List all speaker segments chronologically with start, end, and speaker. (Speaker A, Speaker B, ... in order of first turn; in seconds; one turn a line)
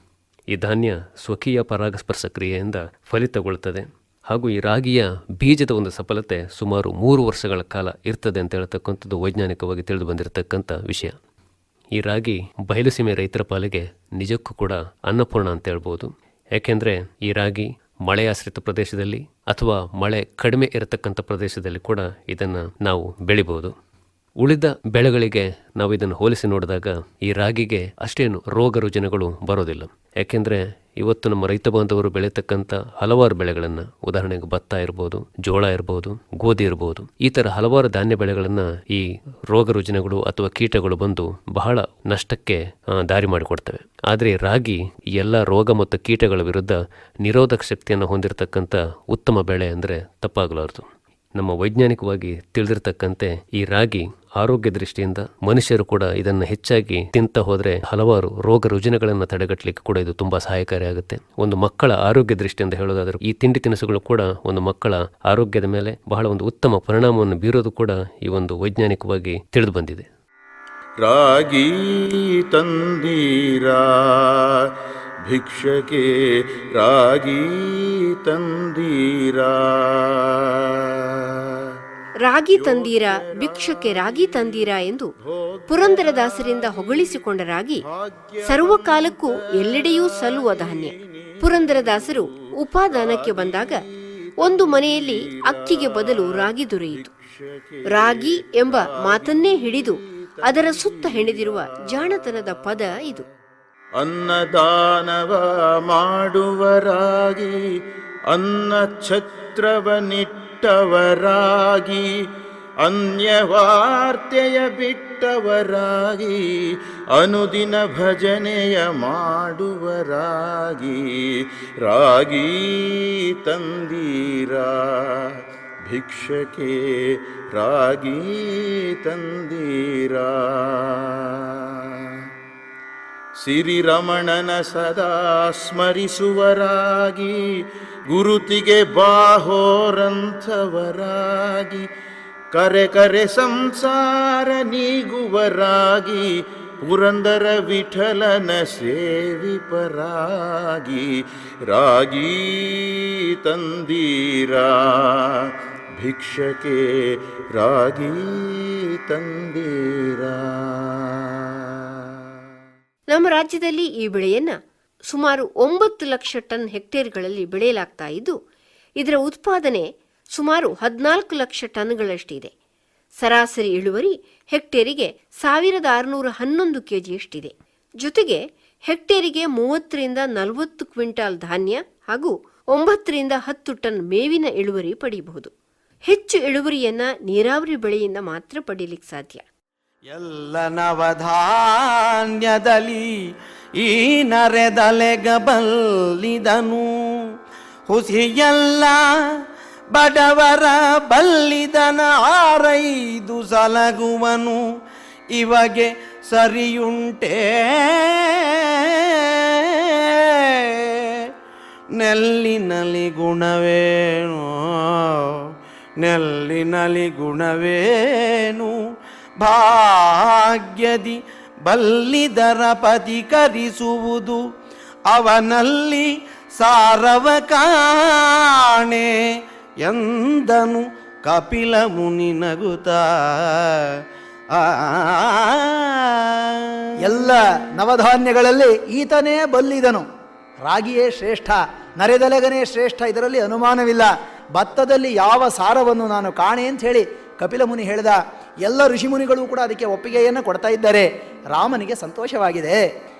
Speaker A: 0.5-11.2
Speaker A: 11.9-23.7
Speaker A: 24.4-70.0
Speaker B: 71.0-74.3
Speaker B: 75.3-76.0
Speaker B: 76.8-80.2
Speaker C: 82.2-85.1
Speaker B: 82.5-84.7
Speaker B: 85.2-87.2
Speaker C: 85.7-87.8
Speaker B: 87.9-93.9
Speaker C: 88.5-93.8
Speaker C: 94.4-97.1
Speaker B: 94.4-103.0
Speaker C: 97.9-103.2
Speaker B: 104.0-107.5
Speaker B: 108.3-112.0
Speaker B: 112.8-116.3
Speaker B: 117.1-121.0
Speaker B: 121.8-124.8
Speaker B: 125.9-126.8
Speaker B: 127.5-131.2
Speaker B: 133.4-137.4
Speaker B: 138.1-141.8
Speaker B: 142.5-146.2
Speaker B: 146.8-151.1
Speaker B: 151.7-155.2
Speaker B: 156.0-156.8
Speaker B: 157.5-158.6
Speaker B: 159.1-161.0
Speaker C: 163.1-164.6
Speaker C: 165.1-168.3
Speaker C: 169.0-172.5
Speaker C: 173.2-185.5
Speaker C: 186.1-189.4
Speaker D: 190.1-193.1
Speaker D: 193.8-196.9
Speaker D: 197.9-199.0
Speaker D: 199.9-204.6
Speaker D: 205.3-211.1
Speaker D: 212.0-215.4
Speaker D: 216.0-218.7
Speaker D: 219.4-224.4
Speaker D: 225.1-229.1
Speaker D: 229.8-233.9
Speaker D: 234.5-236.7
Speaker E: 237.0-240.1
Speaker E: 240.6-252.8